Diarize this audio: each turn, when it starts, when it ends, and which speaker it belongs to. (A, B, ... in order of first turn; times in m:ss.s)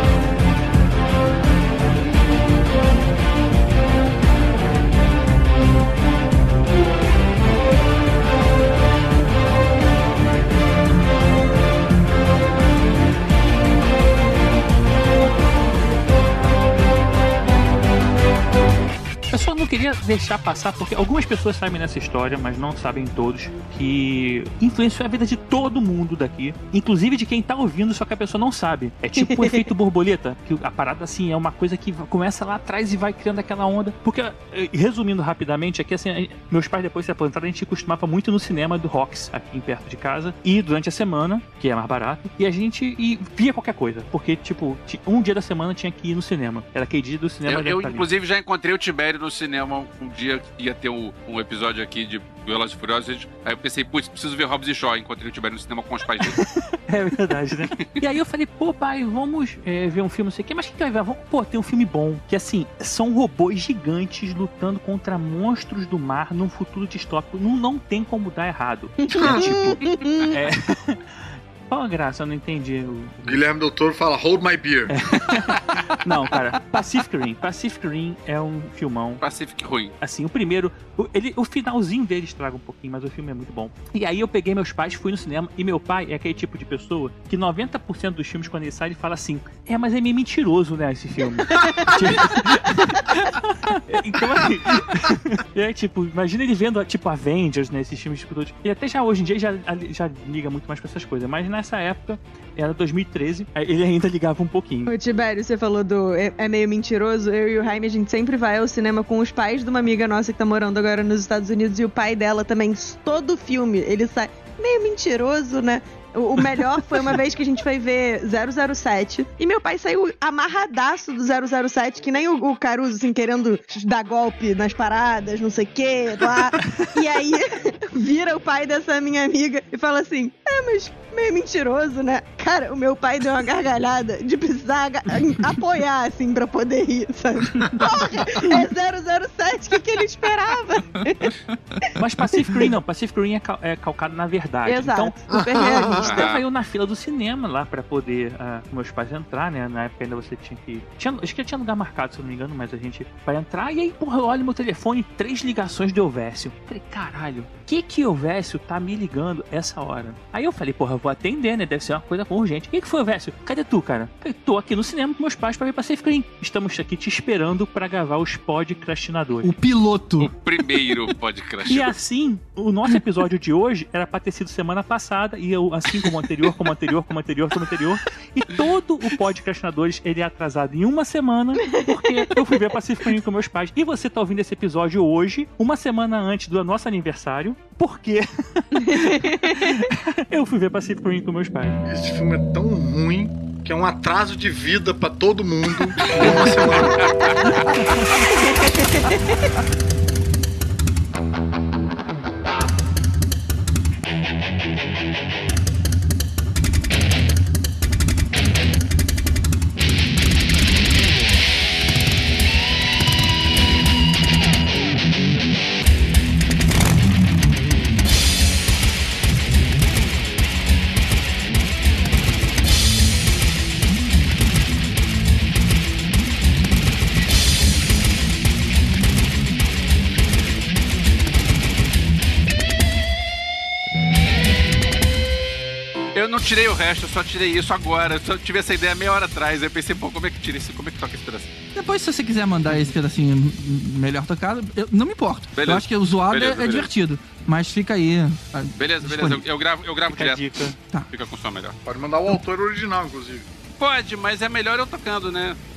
0:19.3-0:48.1 A
0:29.2-0:29.6 B
0:47.5-0:56.4 C
0:56.3-1:13.4 A
1:09.1-1:10.4 B
1:09.2-1:09.5 D
1:13.2-1:14.9 D
1:14.9-1:19.2 A
1:19.2-1:19.9 C
1:20.0-1:44.9 A
1:44.9-2:21.8 B
2:22.0-2:25.2 A
2:24.7-2:26.3 B
2:25.3-2:26.0 D
2:25.9-2:49.5 A
2:26.0-2:26.4 C
2:49.4-2:50.3 E
2:50.2-2:52.0 C
2:51.7-3:11.8 A
3:08.8-3:09.6 B
3:11.9-3:17.0 D
3:16.1-3:16.4 C
3:16.2-3:16.6 A
3:17.0-3:17.4 C
3:17.5-3:18.0 A
3:18.8-3:19.1 B
3:56.1-4:01.5 C
4:01.7-4:09.4 E
4:05.6-4:06.9 C
4:08.8-4:10.6 C
4:10.1-4:10.8 A
4:11.1-4:11.8 C
4:11.9-4:13.5 D
4:13.8-4:15.6 C